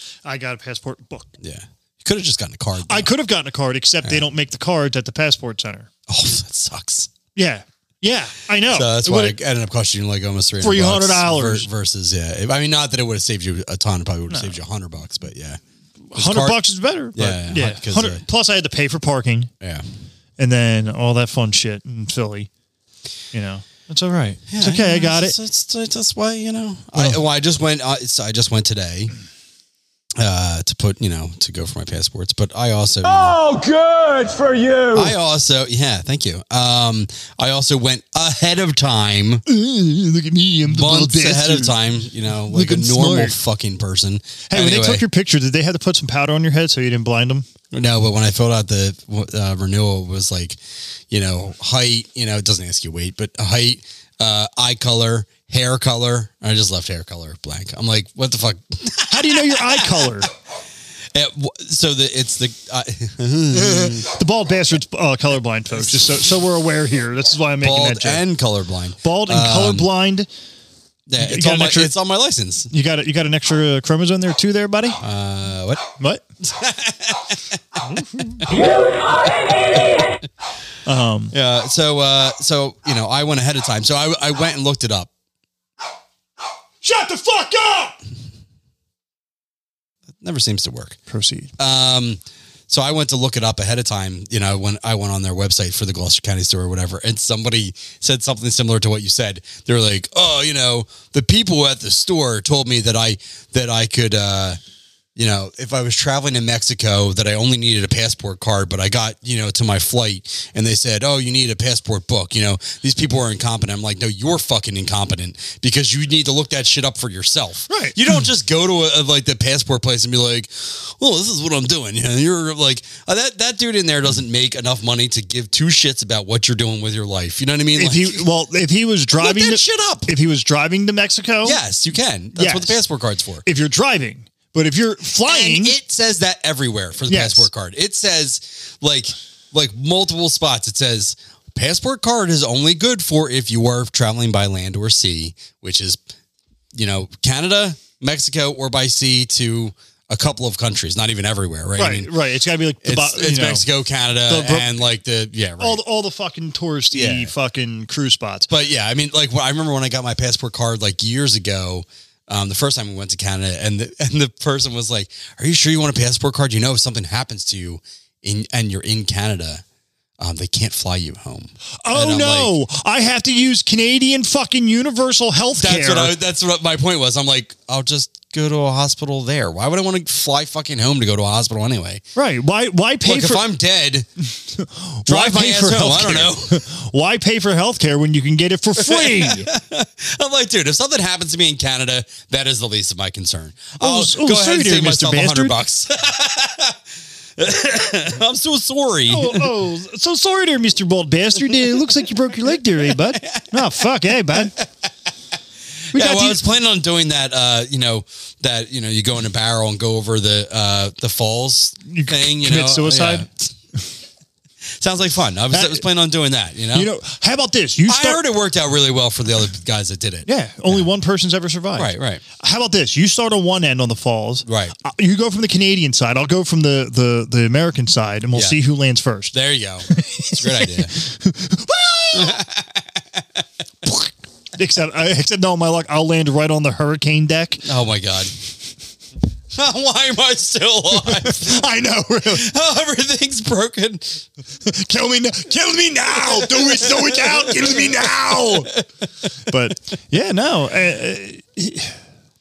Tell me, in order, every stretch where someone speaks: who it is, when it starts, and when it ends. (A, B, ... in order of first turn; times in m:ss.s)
0:00.2-0:01.3 A
0:01.4-0:03.1 B
0:02.8-0:05.9 A
0:06.1-0:07.1 B
0:07.4-0:09.4 A
0:08.6-0:15.6 B
0:10.6-0:11.7 A
0:14.3-0:14.6 A
0:16.1-0:19.5 A
0:16.1-0:16.6 B
0:17.1-0:18.2 B
0:20.4-0:22.5 A
0:23.3-0:25.4 A
0:24.5-0:29.1 B
0:26.9-0:27.2 A
0:30.2-0:33.4 B
0:33.0-0:35.2 C
0:34.9-0:39.4 B
0:39.5-0:41.8 A
0:40.6-0:45.0 B
0:42.4-0:43.4 A
0:44.5-0:47.4 A
0:47.7-1:00.2 B
0:59.1-1:00.3 A
1:01.1-1:04.1 B
1:03.5-1:08.3 A
1:05.7-1:06.3 B
1:07.6-1:09.9 B
1:09.0-1:10.3 A
1:11.1-1:12.7 B
1:11.2-1:11.9 A
1:12.7-1:15.0 A
1:15.0-1:15.9 B
1:16.0-1:16.2 A
1:16.4-1:18.7 B
1:18.1-1:18.4 A
1:18.6-1:19.0 C
1:20.8-1:21.3 A
1:21.3-1:25.1 B
1:26.8-1:27.9 A
1:30.2-1:31.0 B
1:31.1-1:31.5 A
1:31.6-1:44.6 B
1:45.2-2:08.3 B
1:57.7-1:58.0 A
2:07.7-2:11.6 A
2:09.2-2:10.1 B
2:11.4-2:13.4 B
2:12.3-2:12.8 A
2:13.4-2:15.8 A
2:15.2-2:26.0 B
2:17.1-2:17.5 A
2:26.7-2:32.1 B
2:31.8-2:33.6 A
2:32.8-2:35.8 B
2:34.3-2:34.9 A
2:35.6-2:38.5 A
2:36.9-2:37.3 B
2:38.5-2:49.6 B
2:50.2-2:52.6 B
2:51.8-2:56.1 A
2:55.6-3:02.0 B
3:02.1-3:03.5 A
3:03.0-3:04.1 B
3:04.4-3:09.5 A
3:05.1-3:06.6 B
3:08.8-3:16.8 B
3:13.8-3:15.6 A
3:17.4-3:19.5 B
3:19.1-3:24.6 A
3:21.4-3:24.7 B
3:25.9-3:26.4 A
3:25.9-3:33.5 B
3:31.9-3:33.3 A
3:34.6-3:36.9 B
3:35.5-3:35.9 A
3:36.7-3:38.2 A
3:37.8-3:40.8 B
3:40.2-3:49.3 A
3:41.7-3:42.2 B
3:44.4-3:44.7 B
3:48.3-3:48.6 B
3:49.3-3:51.0 B
3:49.9-3:52.4 A
3:52.1-3:53.4 B
3:54.6-3:57.6 A
3:57.6-3:58.3 B
3:59.5-4:01.6 B
4:01.0-4:02.5 A
4:02.2-4:04.3 B
4:04.6-4:08.7 A
4:06.1-4:09.3 B
4:09.5-4:12.0 A